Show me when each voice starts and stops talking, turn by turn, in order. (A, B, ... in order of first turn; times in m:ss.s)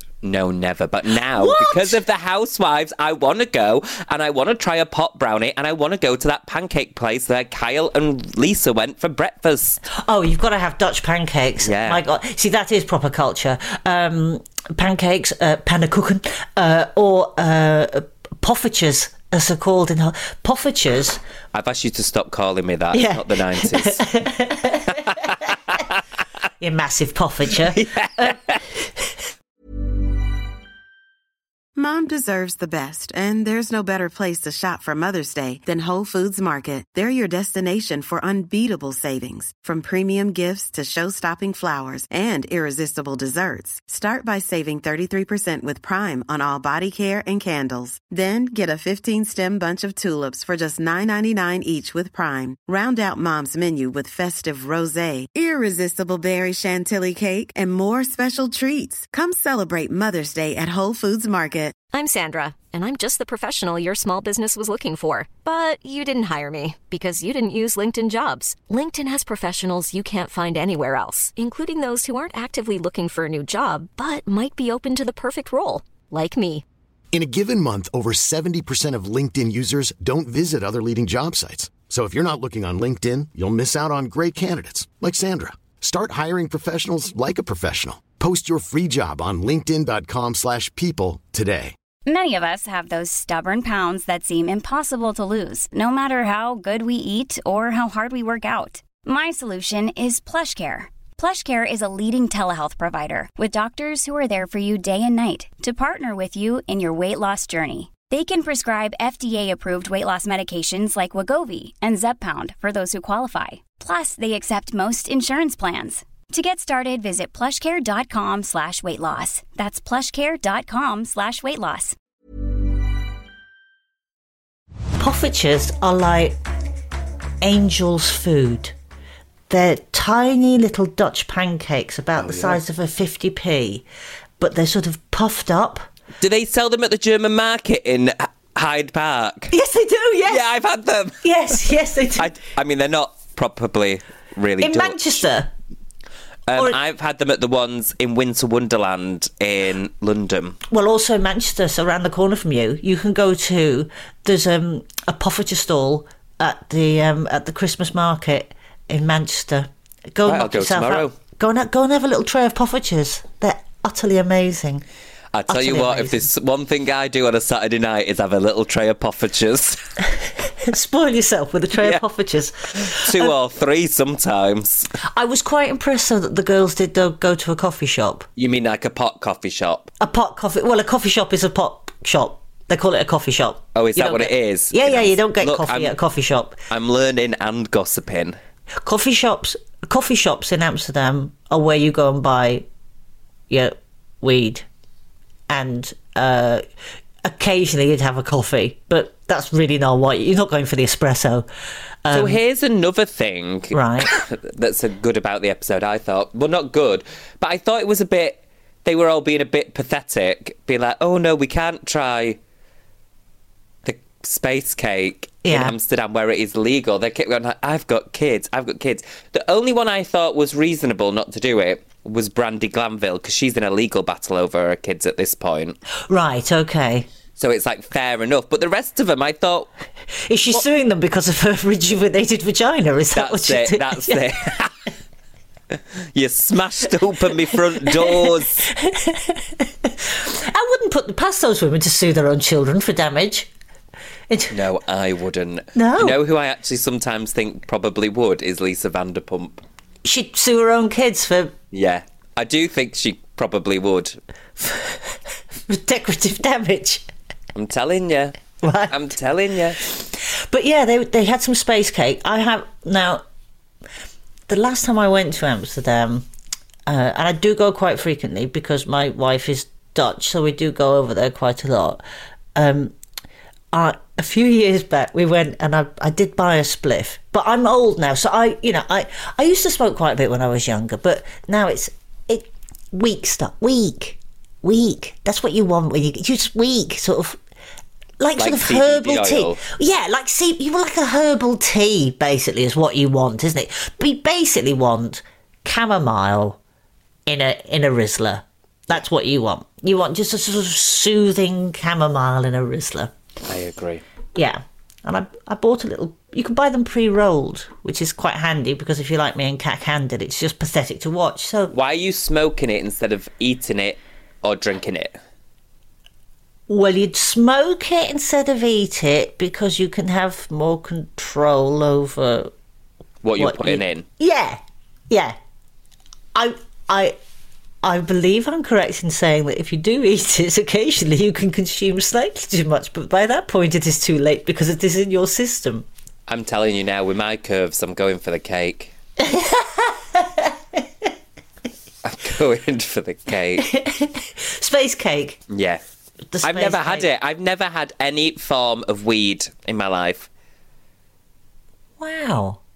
0:00.2-0:09.8 A
0:01.3-0:02.0 B
0:09.9-0:21.2 B
0:11.6-0:12.0 A
0:21.5-0:24.1 A
0:22.9-0:25.1 B
0:25.0-0:25.8 A
0:26.6-0:29.1 B
0:27.7-0:28.6 A
0:31.8-1:01.8 C
1:01.9-1:16.6 D
1:17.1-1:31.7 E
1:32.0-2:02.0 F
2:05.0-2:06.4 B
2:07.4-2:08.7 B
2:09.5-2:13.8 B
2:12.2-2:12.6 A
2:14.4-2:15.9 B
2:16.2-2:19.5 A
2:19.5-2:20.4 B
2:20.3-2:21.6 A
2:21.2-2:22.3 B
2:22.2-2:25.2 A
2:24.6-2:25.5 B
2:26.5-2:30.6 A
2:30.7-2:44.8 B
2:40.2-2:41.1 A
2:45.3-2:49.8 A
2:45.5-2:46.3 B
2:50.6-2:53.3 B
2:52.8-2:54.9 A
2:55.0-2:58.3 B
2:58.4-2:59.9 A
3:00.0-3:06.6 B
3:03.7-3:05.9 A
3:06.7-3:08.4 A
3:08.8-3:12.6 B
3:13.5-3:14.6 B
3:15.5-3:16.6 B
3:17.2-3:21.5 B
3:22.0-3:22.4 B
3:22.1-3:32.4 A
3:23.7-3:24.1 B
3:33.8-3:45.8 A
3:35.4-3:35.7 B
3:46.1-3:47.1 B
3:47.4-3:49.7 A
3:50.2-3:54.3 B
3:53.1-3:54.8 A
3:56.1-3:58.7 A
3:57.4-4:03.5 B
4:04.3-4:04.6 B
4:04.5-4:09.6 A
4:05.8-4:06.2 B
4:10.0-4:11.5 B
4:11.7-4:14.2 A
4:14.6-4:17.1 B
4:17.5-4:18.4 A
4:18.6-4:19.0 B
4:18.9-4:19.8 A
4:19.8-4:23.2 B
4:24.5-4:26.3 B
4:26.9-4:32.0 B
4:32.5-4:32.9 B
4:33.7-4:47.4 B
4:48.2-4:56.6 B
4:48.4-4:49.6 A
4:57.3-5:03.1 B
5:03.4-5:04.0 A
5:04.3-5:11.7 B
5:11.7-5:15.2 A
5:16.7-5:22.5 B
5:23.2-5:24.0 A
5:23.4-5:25.4 B
5:26.3-5:27.2 B
5:27.8-5:35.9 B
5:36.3-5:38.9 A
5:39.2-5:41.1 B
5:42.0-5:43.7 A
5:43.6-5:45.4 B
5:45.5-5:45.8 A
5:46.3-5:47.0 B
5:46.4-5:50.3 A
5:52.0-5:52.6 B